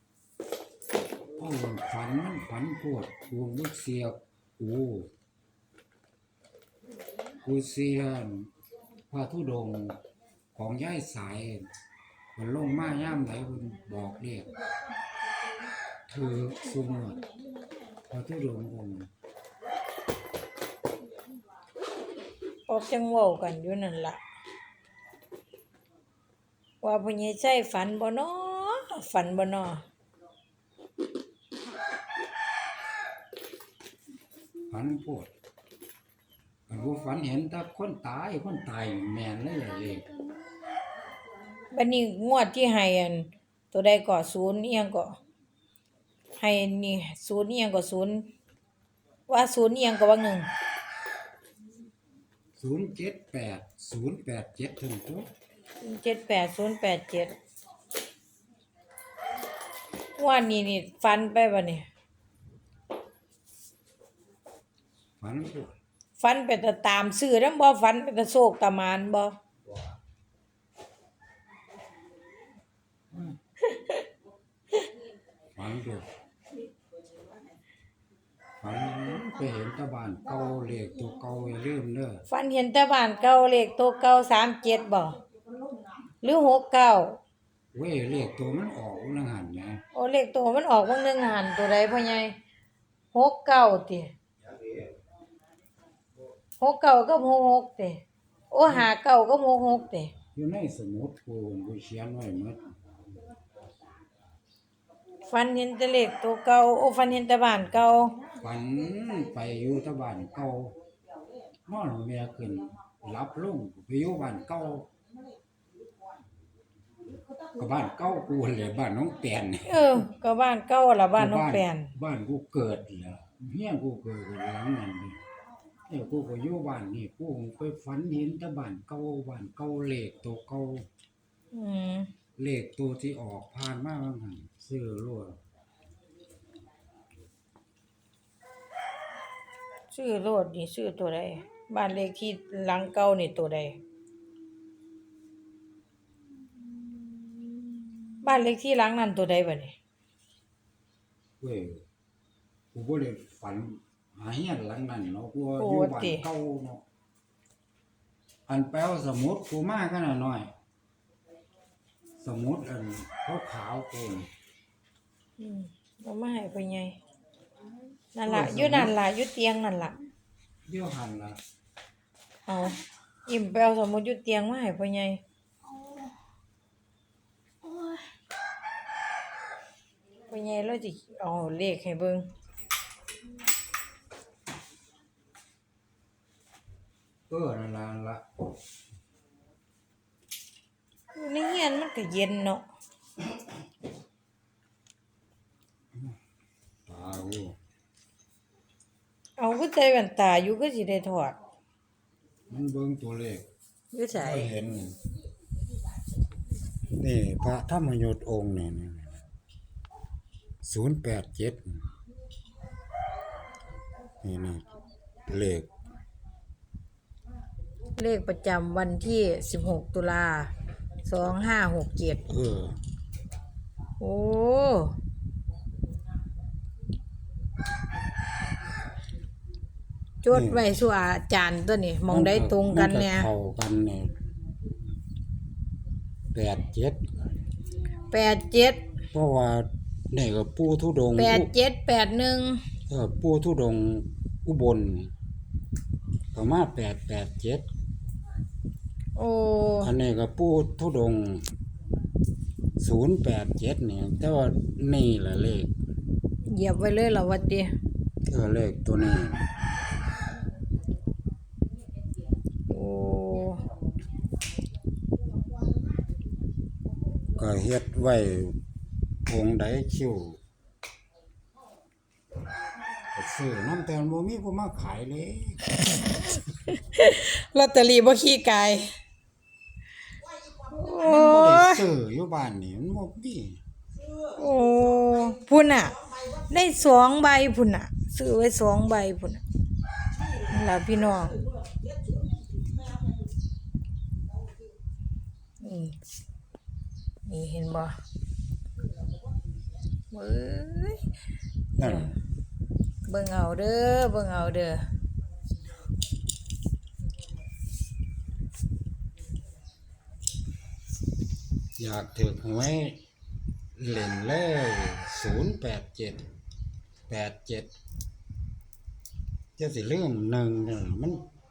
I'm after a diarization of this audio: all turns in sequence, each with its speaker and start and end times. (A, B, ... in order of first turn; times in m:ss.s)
0:01.4-0:05.1 A
0:07.4-0:08.5 A
0:09.1-0:10.0 A
0:10.6-0:11.7 A
0:12.4-0:14.5 A
0:16.1-0:17.2 A
0:18.1-0:19.1 A
0:22.7-0:24.2 B
0:26.8-0:29.8 B
0:34.7-0:35.3 A
0:36.7-0:40.1 A
0:41.7-0:45.2 B
0:46.4-0:48.3 B
0:49.3-0:50.5 B
0:52.6-0:55.3 A
0:55.8-0:57.3 B
1:00.2-1:01.8 B
1:05.2-1:05.8 A
1:06.2-1:09.4 B
1:13.7-1:14.0 B
1:15.6-1:16.1 A
1:18.6-1:22.2 A
1:22.3-1:25.2 B
1:26.2-1:27.2 B
1:27.7-1:29.8 A
1:29.9-1:32.3 B
1:33.1-1:34.1 B
1:36.6-1:40.1 B
1:40.4-1:42.8 A
1:45.3-1:48.2 B
1:48.4-1:50.8 A
1:51.7-1:54.9 A
1:57.6-2:00.0 A
1:59.7-2:01.9 B
2:01.2-2:05.2 A
2:05.9-2:10.9 A
2:11.5-2:12.1 B
2:12.4-2:15.4 A
2:19.9-2:23.8 B
2:28.2-2:29.8 B
2:31.4-2:31.8 A
2:32.7-2:36.8 A
2:35.6-2:36.3 B
2:38.5-2:40.5 A
2:42.2-2:44.3 A
2:45.4-2:47.0 B
2:48.2-2:50.0 B
2:48.2-2:49.0 A
2:50.7-2:51.4 A
2:52.5-2:55.2 B
3:00.3-3:02.3 B
3:07.3-3:08.3 A
3:11.1-3:12.6 B
3:16.9-3:17.6 A
3:19.4-3:21.4 B
3:22.5-3:23.5 A
3:23.9-3:24.5 B
3:24.1-3:25.0 A
3:27.0-3:29.2 A
3:30.6-3:31.9 A
3:34.2-3:34.7 A
3:35.3-3:35.7 A
3:38.0-3:40.5 B
3:41.0-3:42.2 B
3:42.3-3:42.8 A
3:44.0-3:44.9 B
3:50.2-3:53.3 B
3:50.3-3:50.6 A
3:52.1-3:54.1 A
3:56.3-3:57.1 A
3:58.1-3:58.8 B
3:59.1-4:01.5 A
4:01.2-4:02.6 B
4:02.9-4:05.1 A
4:06.3-4:07.7 A
4:09.2-4:09.9 B
4:09.8-4:11.4 A
4:12.8-4:15.8 A
4:16.5-4:17.7 B
4:18.3-4:19.5 A
4:22.7-4:23.6 B
4:27.4-4:28.6 A
4:29.3-4:30.4 A
4:33.1-4:35.6 A
4:36.7-4:38.9 B
4:40.6-4:41.8 B
4:40.8-4:43.6 A
4:44.4-4:49.4 B
4:50.5-4:51.4 B
4:55.6-4:55.9 B
4:57.3-4:57.9 B
5:00.1-5:01.0 B
5:01.8-5:02.1 B
5:01.8-5:02.1 A
5:03.1-5:04.8 B
5:11.8-5:13.0 A
5:13.8-5:16.2 A
5:17.1-5:17.7 A
5:19.6-5:21.2 A